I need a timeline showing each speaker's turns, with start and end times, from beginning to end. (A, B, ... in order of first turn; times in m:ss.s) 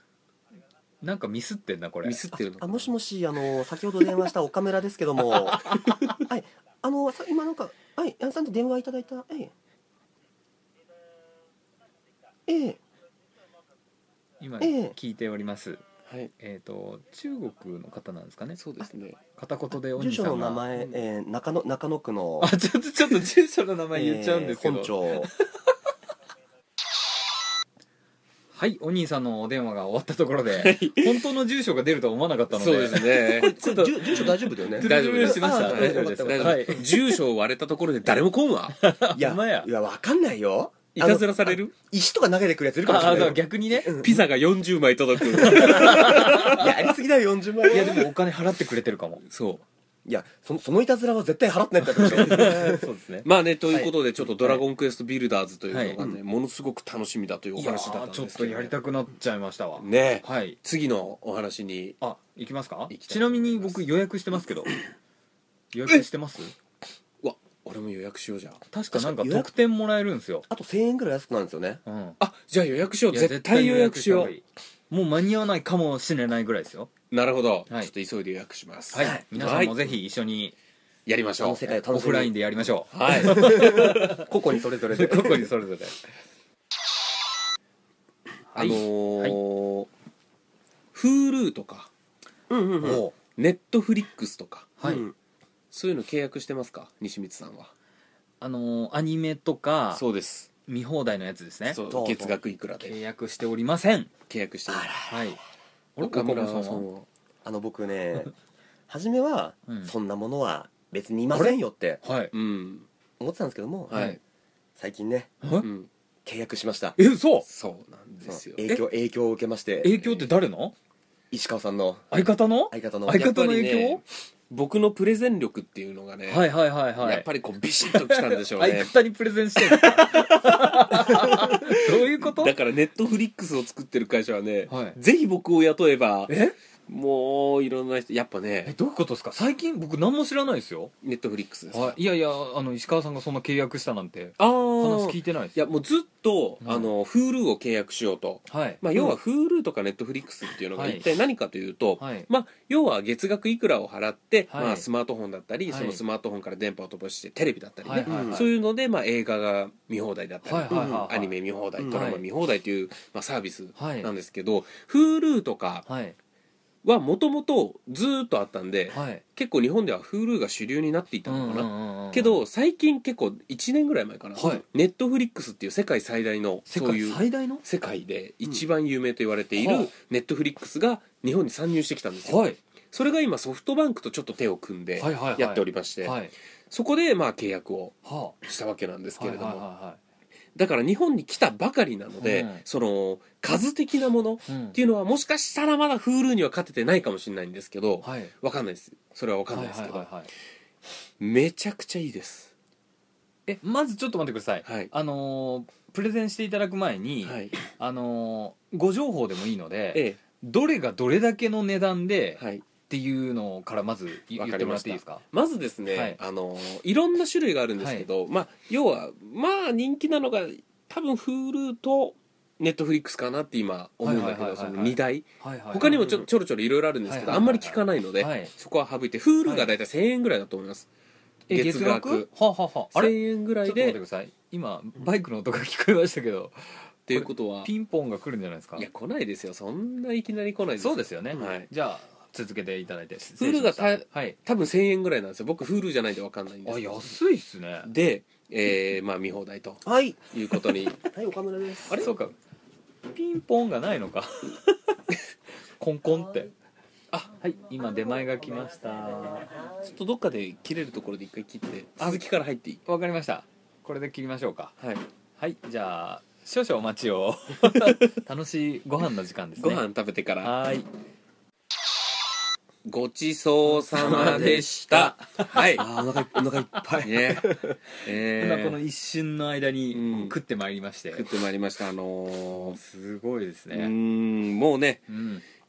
0:01.0-0:02.2 A
0:02.0-0:02.9 B
0:02.6-0:09.5 C
0:05.5-0:06.0 A
0:12.5-0:12.8 C
0:14.4-0:15.8 A
0:14.6-0:15.0 C
0:16.1-0:16.3 B
0:16.4-0:18.6 A
0:18.6-0:19.2 B
0:19.4-0:20.6 A
0:20.0-0:22.5 C
0:22.4-0:25.5 A
0:23.9-0:25.3 C
0:28.5-0:37.1 A
0:30.5-0:31.2 B
0:32.5-0:38.8 B
0:33.4-0:36.9 C
0:38.8-0:39.7 A
0:39.1-0:44.2 C
0:40.9-0:41.7 B
0:42.8-0:44.0 A
0:43.0-0:43.3 B
0:44.0-0:46.7 B
0:45.4-0:46.7 A
0:45.6-0:48.1 C
0:47.7-0:49.2 A
0:49.3-0:49.6 B
0:50.1-0:52.8 C
0:51.9-0:54.6 A
0:52.2-0:52.6 B
0:53.2-0:58.8 B
0:55.7-0:56.0 A
0:57.6-1:00.6 A
0:59.8-1:02.0 B
1:02.0-1:04.8 A
1:02.9-1:03.8 B
1:05.7-1:06.5 A
1:07.2-1:08.6 B
1:08.7-1:10.4 A
1:08.9-1:09.5 C
1:10.5-1:11.8 C
1:11.8-1:12.2 A
1:12.2-1:14.3 B
1:13.1-1:16.9 A
1:17.1-1:19.8 B
1:18.9-1:20.5 A
1:19.0-1:19.2 C
1:21.1-1:21.7 B
1:21.4-1:22.3 C
1:21.8-1:24.3 A
1:22.9-1:24.2 B
1:23.2-1:25.5 C
1:24.9-1:26.0 A
1:28.5-1:29.4 A
1:28.6-1:29.9 B
1:30.9-1:31.9 B
1:32.5-1:33.0 C
1:32.8-1:33.2 A
1:33.4-1:34.8 B
1:34.8-1:35.0 A
1:34.8-1:35.2 C
1:35.7-1:37.7 B
1:38.4-1:40.0 A
1:39.9-1:40.5 B
1:40.7-1:41.8 A
1:41.7-1:43.0 B
1:41.9-1:42.4 C
1:42.8-1:44.1 A
1:44.3-1:44.9 B
1:44.7-1:45.2 C
1:45.1-1:45.4 A
1:46.0-1:46.9 A
1:46.0-1:47.1 B
1:47.4-1:48.3 C
1:48.9-1:52.0 C
1:49.7-1:49.9 A
1:51.3-1:52.3 A
1:52.3-1:52.9 B
1:53.2-1:54.1 C
1:53.9-1:54.2 B
1:53.9-1:54.2 A
1:54.8-1:55.3 C
1:55.4-1:55.7 A
1:55.6-1:55.9 B
1:56.2-1:57.0 C
1:57.0-1:57.5 A
1:57.5-1:58.7 B
1:58.2-2:00.2 C
1:59.8-2:00.7 A
2:01.3-2:03.3 C
2:02.1-2:04.0 A
2:03.1-2:08.9 B
2:06.3-2:07.3 A
2:07.9-2:12.5 A
2:09.6-2:16.4 B
2:14.7-2:15.0 A
2:16.3-2:16.6 A
2:16.9-2:18.8 B
2:18.7-2:20.9 A
2:21.0-2:22.0 B
2:21.7-2:25.6 A
2:24.4-2:45.9 B
2:26.6-2:26.9 A
2:28.5-2:29.0 A
2:30.8-2:31.1 A
2:32.0-2:32.3 A
2:34.5-2:34.8 A
2:35.7-2:36.0 A
2:37.8-2:38.5 A
2:38.0-2:38.4 C
2:40.4-2:41.4 A
2:40.7-2:41.1 C
2:41.8-2:42.1 C
2:41.9-2:42.2 A
2:43.8-2:44.1 A
2:45.9-2:46.2 A
2:46.8-3:06.2 B
2:48.9-2:49.2 A
2:51.3-2:52.4 A
2:54.4-2:54.6 A
2:56.7-2:57.6 A
2:59.6-2:59.9 A
3:02.2-3:02.6 A
3:05.0-3:06.3 A
3:06.7-3:09.6 B
3:08.0-3:08.4 A
3:09.2-3:10.0 A
3:10.6-3:20.1 B
3:12.2-3:12.6 A
3:14.5-3:14.8 A
3:18.0-3:18.3 A
3:19.5-3:20.3 A
3:21.2-3:22.5 B
3:23.5-3:35.2 A
3:24.6-3:24.9 B
3:27.2-3:27.5 B
3:29.9-3:30.2 B
3:32.4-3:32.6 B
3:34.4-3:50.9 B
3:35.9-3:36.2 A
3:37.8-3:38.1 A
3:44.0-3:46.3 A
3:47.1-3:48.5 A
3:49.4-3:49.7 A
3:51.5-3:58.9 A
3:51.5-3:52.3 B
3:52.9-3:54.0 B
3:57.1-3:57.7 B
3:58.8-4:01.7 B
4:00.8-4:04.4 A
4:03.4-4:07.1 B
4:06.7-4:07.9 A
4:07.9-4:11.0 B
4:09.8-4:10.2 C
4:11.1-4:12.0 C
4:12.0-4:12.4 A
4:13.1-4:15.2 A
4:15.8-4:16.5 A
4:17.3-4:19.5 A
4:19.8-4:22.8 B
4:22.9-4:24.8 A
4:25.4-4:29.8 A
4:27.8-4:28.0 B
4:29.6-4:30.6 B
4:30.4-4:30.9 A
4:32.8-4:35.9 B
4:33.7-4:35.6 A
4:34.0-4:35.1 C
4:35.7-4:37.8 C
4:37.0-4:38.8 B
4:38.4-4:41.3 A
4:39.9-4:40.4 B
4:41.1-4:42.8 B
4:42.5-4:43.9 A
4:43.7-4:45.1 B
4:45.1-4:45.4 A